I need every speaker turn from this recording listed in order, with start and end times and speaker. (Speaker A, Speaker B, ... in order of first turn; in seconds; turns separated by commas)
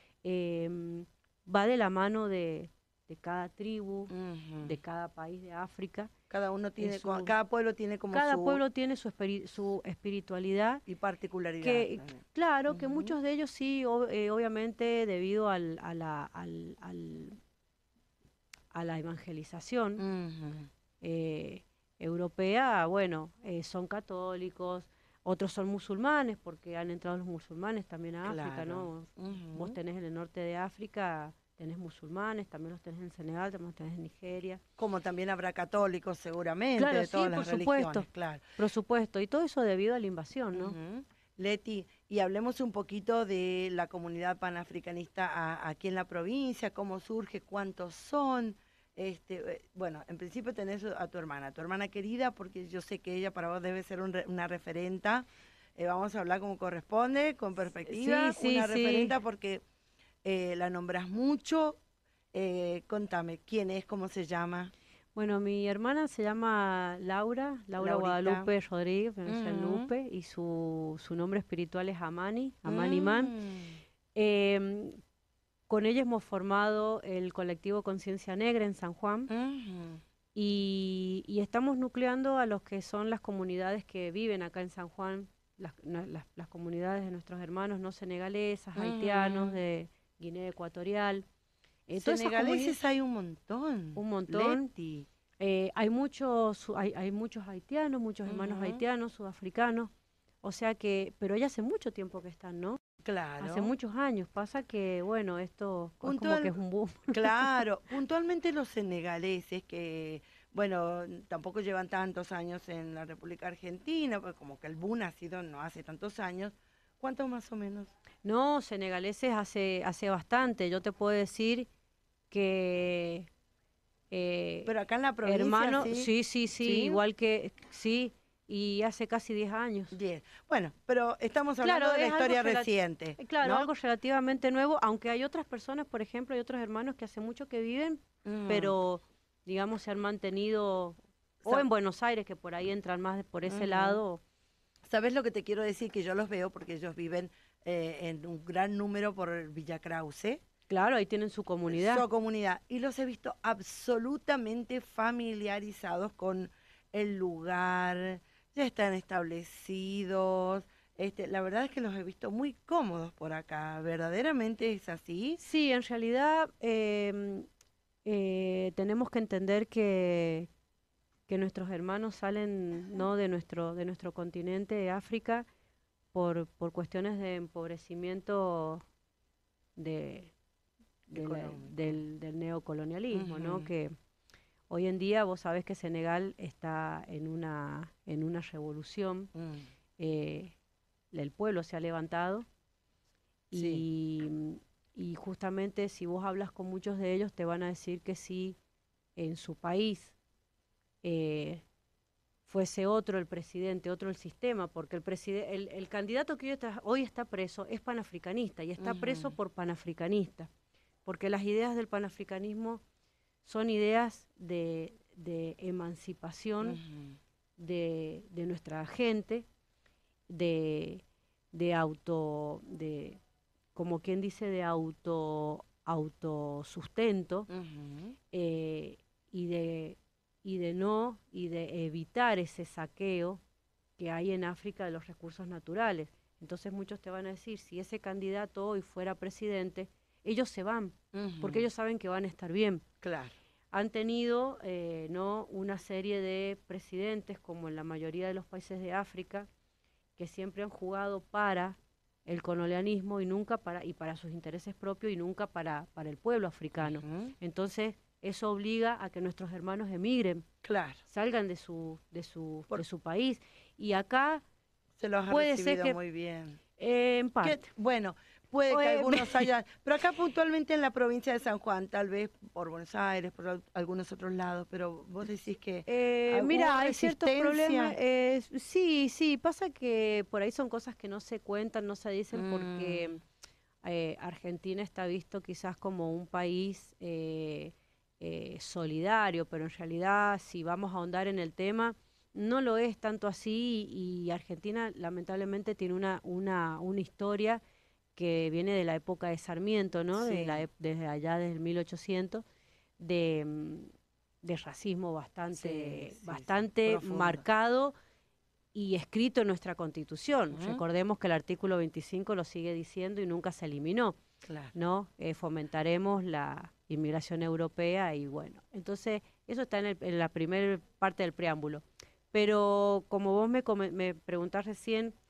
Speaker A: 0.2-6.1, Speaker B: 4.1-4.8, Speaker B: 6.3-8.6, Speaker A: 6.8-7.3, Speaker A: 8.1-10.8, Speaker B: 10.9-13.1, Speaker A: 11.6-17.4, Speaker A: 18.7-20.0, Speaker B: 20.0-20.7, Speaker A: 21.0-34.6, Speaker B: 28.2-29.8, Speaker B: 34.8-38.5, Speaker A: 36.8-38.1, Speaker A: 38.6-40.8, Speaker B: 40.5-55.3, Speaker B: 55.8-59.6, Speaker A: 57.9-59.1, Speaker B: 60.2-61.8, Speaker B: 62.3-64.7, Speaker A: 65.2-73.3, Speaker B: 67.8-68.5, Speaker B: 69.3-69.9, Speaker B: 72.7-73.8, Speaker A: 74.2-75.0, Speaker A: 75.7-79.3, Speaker B: 79.3-80.0, Speaker A: 80.3-91.2, Speaker B: 88.8-89.6, Speaker A: 91.9-92.8, Speaker B: 92.0-95.1, Speaker A: 94.0-94.7, Speaker A: 95.4-99.9, Speaker B: 98.3-98.8, Speaker A: 100.4-102.8, Speaker B: 103.0-103.7, Speaker A: 103.4-107.6, Speaker B: 106.0-106.6, Speaker B: 107.1-117.9, Speaker A: 118.2-121.7, Speaker A: 122.3-123.3, Speaker A: 124.1-124.7, Speaker B: 124.7-127.0, Speaker A: 125.2-129.9, Speaker B: 129.9-133.7, Speaker A: 131.6-144.2, Speaker B: 138.2-138.7, Speaker B: 143.5-144.0, Speaker B: 144.9-150.4, Speaker A: 150.7-152.1, Speaker B: 151.7-165.4, Speaker A: 165.4-167.5, Speaker A: 168.1-170.5, Speaker A: 171.3-175.5, Speaker A: 176.1-178.8, Speaker A: 179.8-180.3, Speaker A: 181.1-183.9, Speaker B: 181.1-182.0, Speaker B: 183.1-183.7, Speaker A: 184.7-189.3, Speaker B: 189.3-189.7, Speaker A: 190.0-190.5, Speaker A: 191.1-192.5, Speaker A: 193.5-198.6, Speaker B: 193.5-193.8, Speaker A: 199.2-200.2, Speaker A: 201.0-201.6, Speaker A: 202.5-210.5, Speaker B: 208.8-209.3, Speaker A: 211.1-212.8, Speaker A: 213.4-216.8, Speaker B: 216.6-217.2, Speaker A: 217.6-219.5, Speaker A: 220.3-223.2, Speaker A: 223.8-227.5, Speaker B: 227.5-228.2, Speaker A: 228.3-233.4, Speaker A: 234.0-242.8, Speaker B: 241.1-241.6, Speaker B: 243.0-243.3, Speaker A: 243.7-249.5, Speaker A: 250.2-260.5, Speaker B: 256.8-257.3, Speaker B: 260.6-261.0, Speaker A: 261.1-264.4, Speaker B: 265.0-266.6, Speaker A: 265.3-266.0, Speaker A: 266.8-267.7, Speaker B: 267.4-278.0, Speaker A: 268.7-269.5, Speaker A: 275.9-283.2, Speaker B: 282.3-283.2, Speaker A: 283.8-297.6, Speaker A: 298.2-302.4, Speaker B: 300.1-300.7, Speaker A: 303.0-303.9, Speaker A: 304.4-307.9, Speaker B: 305.5-307.4, Speaker A: 308.7-314.2, Speaker B: 310.5-310.8, Speaker B: 314.5-314.7, Speaker A: 314.7-325.1